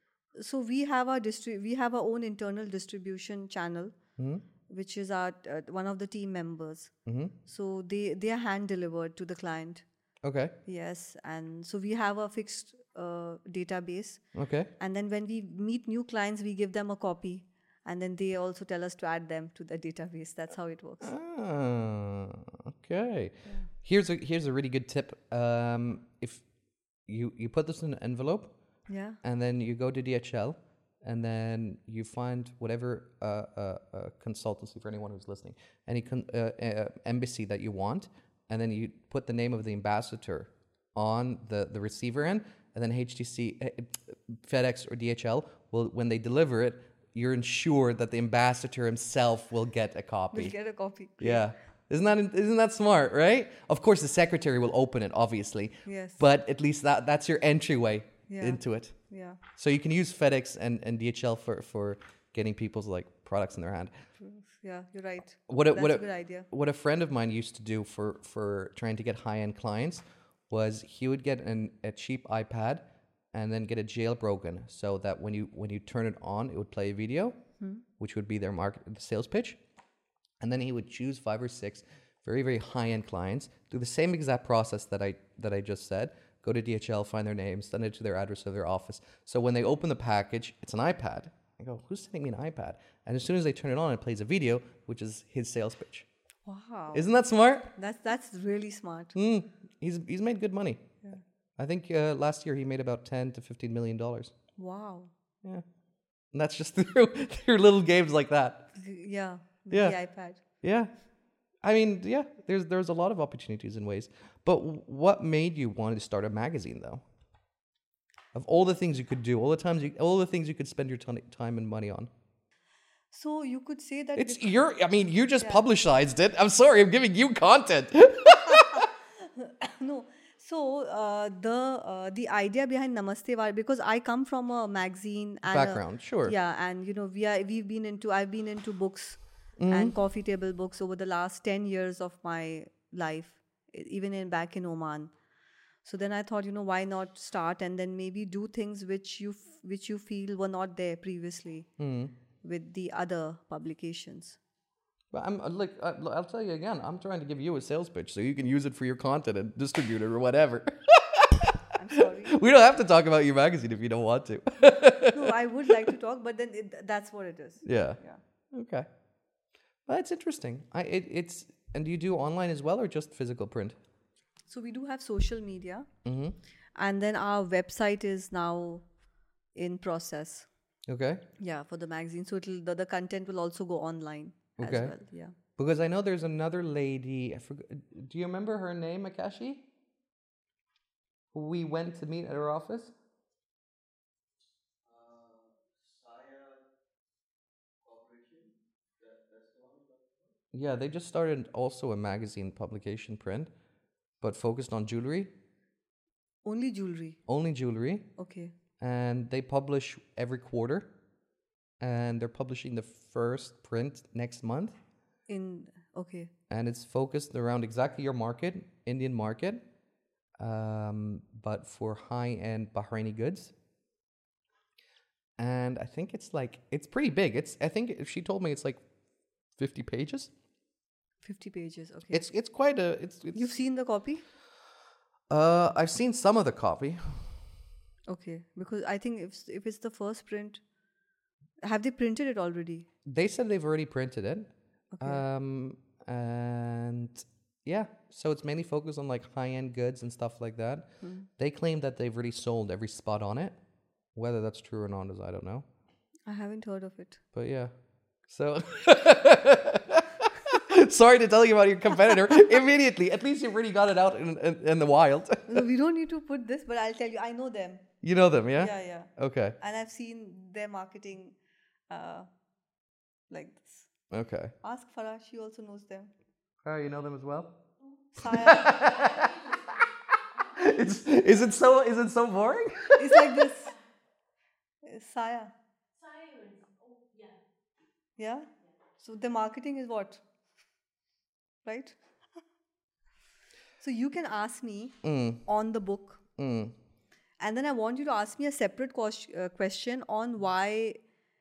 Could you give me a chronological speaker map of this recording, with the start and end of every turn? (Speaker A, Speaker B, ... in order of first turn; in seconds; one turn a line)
Speaker A: 0.3-4.0
Speaker B: 4.2-4.5
Speaker A: 4.7-6.9
Speaker B: 7.1-7.3
Speaker A: 7.5-9.8
Speaker B: 10.2-10.6
Speaker A: 10.7-14.2
Speaker B: 14.3-14.7
Speaker A: 14.8-21.1
Speaker B: 21.0-26.4
Speaker B: 27.1-28.5
Speaker A: 28.9-29.2
Speaker B: 29.2-50.5
Speaker A: 50.3-51.5
Speaker B: 51.2-59.0
Speaker A: 55.9-56.2
Speaker A: 58.3-59.4
Speaker B: 59.5-63.9
Speaker A: 64.2-66.5
Speaker B: 65.5-77.4
Speaker B: 78.0-79.6
Speaker B: 80.4-96.1
Speaker A: 96.5-97.1
Speaker B: 96.9-97.7
Speaker A: 97.8-99.2
Speaker B: 99.2-101.0
Speaker B: 101.6-104.3
Speaker A: 104.6-105.1
Speaker B: 106.3-108.7
Speaker A: 108.8-110.4
Speaker B: 109.7-110.0
Speaker B: 110.6-110.9
Speaker B: 111.6-117.0
Speaker B: 118.3-122.1
Speaker A: 123.1-124.6
Speaker B: 124.2-128.9
Speaker A: 128.4-145.1
Speaker B: 135.5-136.3
Speaker B: 139.6-140.0
Speaker A: 145.8-151.7
Speaker B: 151.8-152.1
Speaker A: 152.4-154.4
Speaker B: 155.1-165.9
Speaker A: 161.8-162.4
Speaker A: 165.1-168.2
Speaker B: 167.7-168.0
Speaker B: 168.5-168.9
Speaker B: 169.9-173.8
Speaker A: 174.5-175.9
Speaker B: 176.1-176.4
Speaker A: 176.8-178.9
Speaker A: 179.6-180.5
Speaker B: 180.9-181.2
Speaker A: 181.4-185.3
Speaker B: 184.6-184.9
Speaker B: 185.6-189.7
Speaker B: 191.3-192.9
Speaker B: 200.5-203.5
Speaker B: 204.2-205.3
Speaker A: 206.4-207.2
Speaker B: 207.3-208.1
Speaker A: 208.2-208.5
Speaker B: 208.8-210.9
Speaker B: 211.8-214.8
Speaker A: 215.3-216.3
Speaker B: 216.5-219.6
Speaker B: 220.4-223.5
Speaker B: 225.4-228.8
Speaker B: 229.6-230.3
Speaker A: 231.2-232.3
Speaker B: 232.1-233.5
Speaker A: 233.3-234.2
Speaker B: 235.3-237.2
Speaker A: 238.1-240.6
Speaker A: 241.6-242.9
Speaker B: 243.1-253.6
Speaker A: 244.9-245.2
Speaker A: 251.0-251.3
Speaker B: 254.2-255.7
Speaker A: 256.3-257.2
Speaker B: 257.3-257.7
Speaker B: 258.3-265.6
Speaker A: 262.1-262.4
Speaker A: 265.5-267.9
Speaker B: 268.0-269.6
Speaker A: 268.6-271.4
Speaker A: 271.9-272.3
Speaker A: 273.3-273.9
Speaker B: 274.1-274.5
Speaker A: 274.6-276.1
Speaker B: 276.6-277.6
Speaker A: 278.1-279.3
Speaker B: 278.2-279.7
Speaker B: 280.4-283.4
Speaker A: 282.9-283.8
Speaker A: 284.8-285.5
Speaker A: 288.2-288.5
Speaker A: 289.0-290.2
Speaker A: 291.6-292.0
Speaker A: 293.8-296.2
Speaker B: 295.0-295.4
Speaker B: 296.4-296.8
Speaker A: 297.4-301.0